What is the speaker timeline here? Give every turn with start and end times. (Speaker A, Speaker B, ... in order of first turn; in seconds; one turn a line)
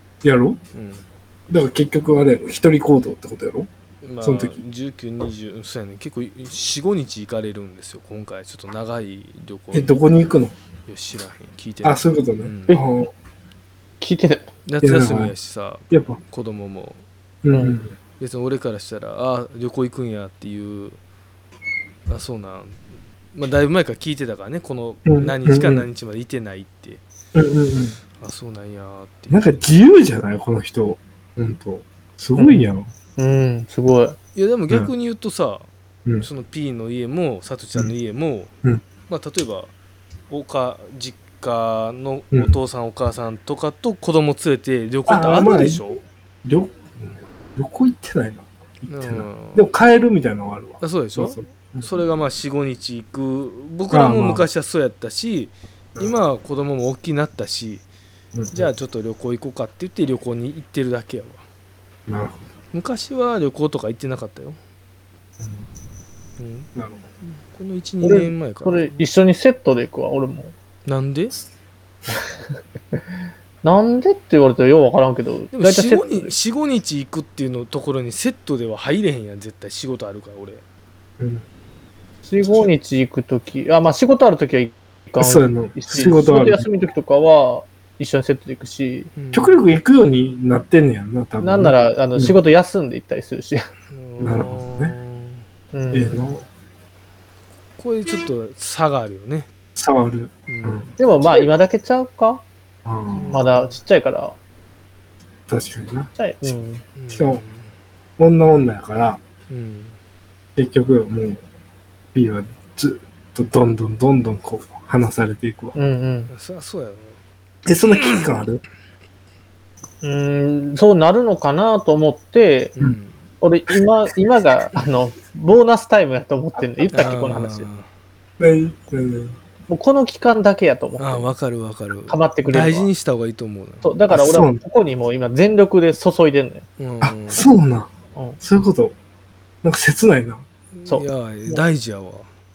Speaker A: 0.2-0.6
Speaker B: 0.7-1.0
Speaker A: 1.5-3.7
Speaker B: 4.0-10.0
Speaker A: 4.2-4.6
Speaker A: 9.7-10.5
Speaker B: 10.8-12.8
Speaker A: 11.8-13.1
Speaker C: 14.0-14.5
Speaker B: 14.7-17.0
Speaker A: 14.8-15.3
Speaker A: 15.9-16.2
Speaker A: 17.4-17.9
Speaker C: 17.5-17.8
Speaker B: 18.2-21.0
Speaker B: 22.1-22.8
Speaker B: 23.3-27.0
Speaker A: 25.1-25.9
Speaker A: 27.3-28.0
Speaker B: 28.2-29.5
Speaker A: 29.3-32.9
Speaker C: 32.4-34.1
Speaker B: 34.3-35.7
Speaker B: 36.2-38.5
Speaker B: 39.1-39.7
Speaker B: 40.3-46.0
Speaker A: 42.3-42.6
Speaker A: 45.1-45.8
Speaker A: 46.4-51.9
Speaker B: 48.9-49.7
Speaker B: 50.8-57.8
Speaker A: 53.9-54.5
Speaker A: 58.3-58.7
Speaker B: 58.5-61.4
Speaker A: 62.1-62.4
Speaker B: 62.7-64.6
Speaker A: 65.4-65.7
Speaker B: 66.4-66.7
Speaker A: 66.8-67.0
Speaker B: 67.3-69.0
Speaker C: 68.0-70.5
Speaker B: 70.8-71.3
Speaker C: 73.6-76.3
Speaker B: 75.5-80.6
Speaker A: 81.2-81.4
Speaker C: 82.2-89.1
Speaker A: 85.2-86.7
Speaker B: 89.2-89.6
Speaker A: 89.3-92.3
Speaker C: 91.4-93.6
Speaker B: 93.9-95.4
Speaker A: 94.2-94.9
Speaker C: 95.7-96.2
Speaker A: 95.9-96.4
Speaker B: 97.8-99.5
Speaker A: 99.7-101.5
Speaker B: 100.5-100.9
Speaker C: 101.0-102.4
Speaker A: 102.8-103.4
Speaker C: 103.2-104.3
Speaker A: 105.5-106.6
Speaker C: 106.2-106.8
Speaker B: 107.0-107.7
Speaker A: 107.1-107.4
Speaker A: 108.2-109.2
Speaker B: 109.5-110.0
Speaker A: 110.5-111.4
Speaker A: 112.1-115.8
Speaker C: 115.8-116.3
Speaker B: 116.3-117.2
Speaker A: 117.7-118.6
Speaker B: 118.0-118.2
Speaker C: 120.0-122.7
Speaker B: 122.8-123.2
Speaker C: 123.4-127.7
Speaker B: 126.9-127.9
Speaker A: 128.4-129.4
Speaker C: 129.7-131.3
Speaker B: 131.0-133.9
Speaker C: 132.1-132.9
Speaker C: 133.8-136.6
Speaker A: 134.1-134.6
Speaker B: 136.8-137.4
Speaker A: 137.0-137.9
Speaker A: 138.4-138.9
Speaker A: 139.6-140.4
Speaker B: 140.7-142.3
Speaker C: 140.9-141.6